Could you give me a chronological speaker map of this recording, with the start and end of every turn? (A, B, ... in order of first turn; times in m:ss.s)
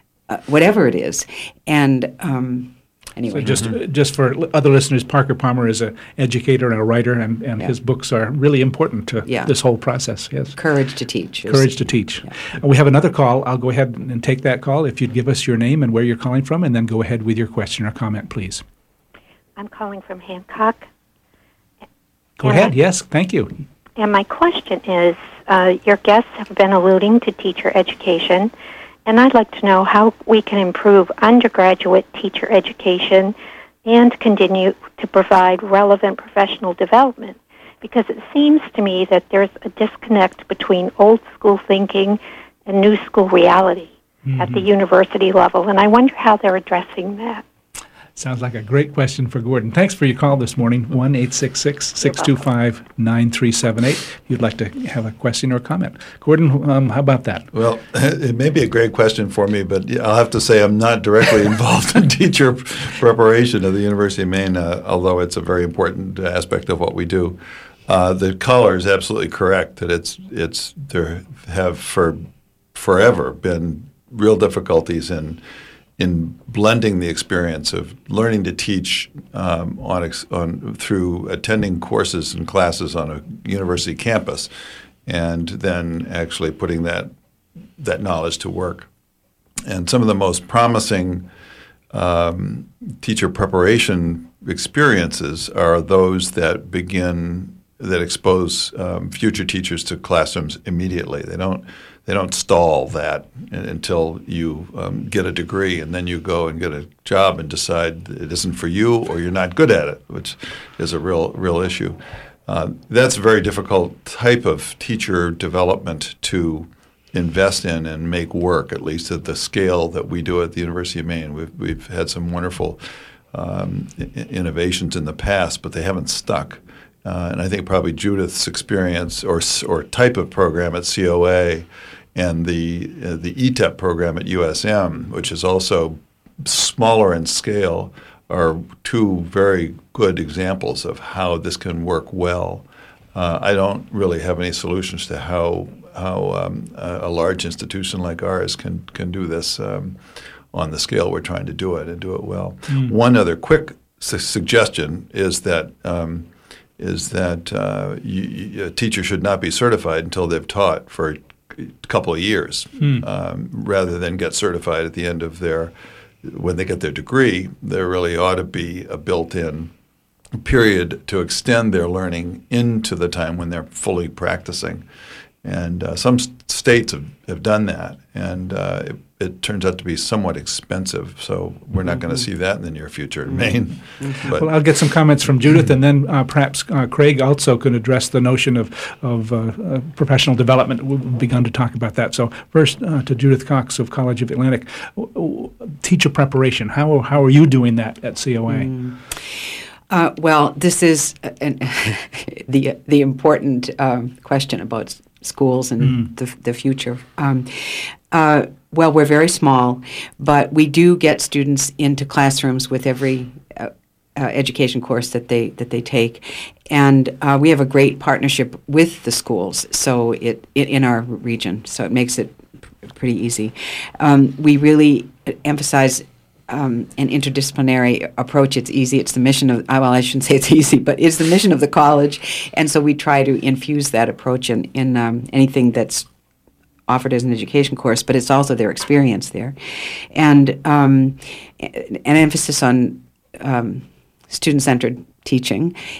0:00.3-0:03.6 A
0:03.3-0:10.5 B
0:03.4-0:03.7 C
0:09.2-0:09.5 A
0:10.5-0:12.3 A
0:11.5-0:18.6 B
0:19.6-0:20.9 D
0:22.4-0:23.6 B
0:22.4-0:22.7 D
0:24.0-0:28.5 D
0:29.0-0:47.4 D
0:44.2-0:44.7 B
0:48.2-0:57.5 B
0:57.5-1:12.2 C
1:12.7-1:15.4 C
1:16.0-1:24.5 C
1:25.0-1:27.1 C
1:27.8-1:28.9 C
1:29.6-1:31.3 C
1:31.9-2:02.8 C
2:03.3-2:30.0 C
2:30.5-2:49.7 C
2:42.8-2:43.0 B
2:50.3-2:54.8 C
2:55.4-3:04.5 C
3:01.8-3:02.2 A
3:03.3-3:04.3 A
3:04.3-3:18.7 B
3:18.5-3:19.4 A
3:19.9-3:56.0 A
3:25.8-3:26.1 B
3:56.9-3:59.5 A
4:00.1-4:05.7 A